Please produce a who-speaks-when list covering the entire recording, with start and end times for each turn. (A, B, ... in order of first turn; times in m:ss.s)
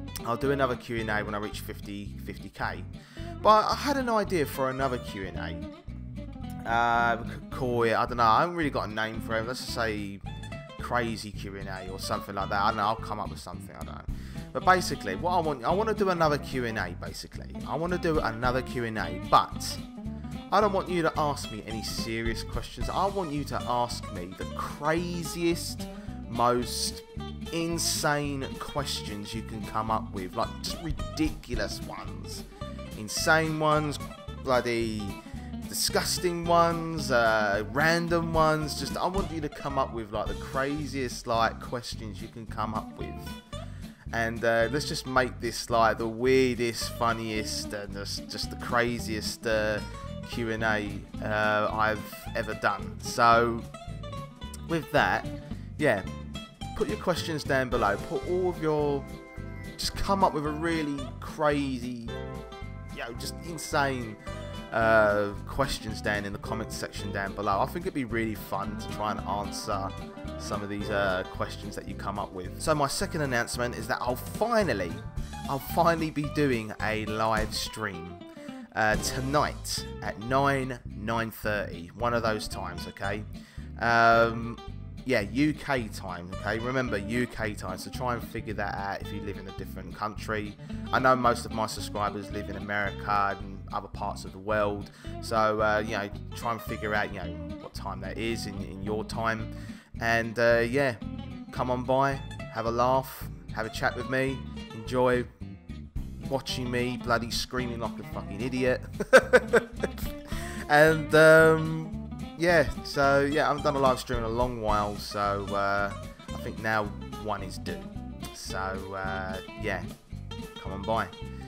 0:00.2-0:02.9 A
0:03.4-0:05.7 A
0:06.6-0:10.2 A
0:10.8-0:19.8 A
0:20.5-0:43.4 A
0:44.1-0:53.7 A
0:54.7-0:56.1 A
0:56.7-0:59.1 A
0:59.8-1:02.2 A
1:02.9-1:45.3 A
1:46.2-1:59.9 A
2:00.6-2:01.1 A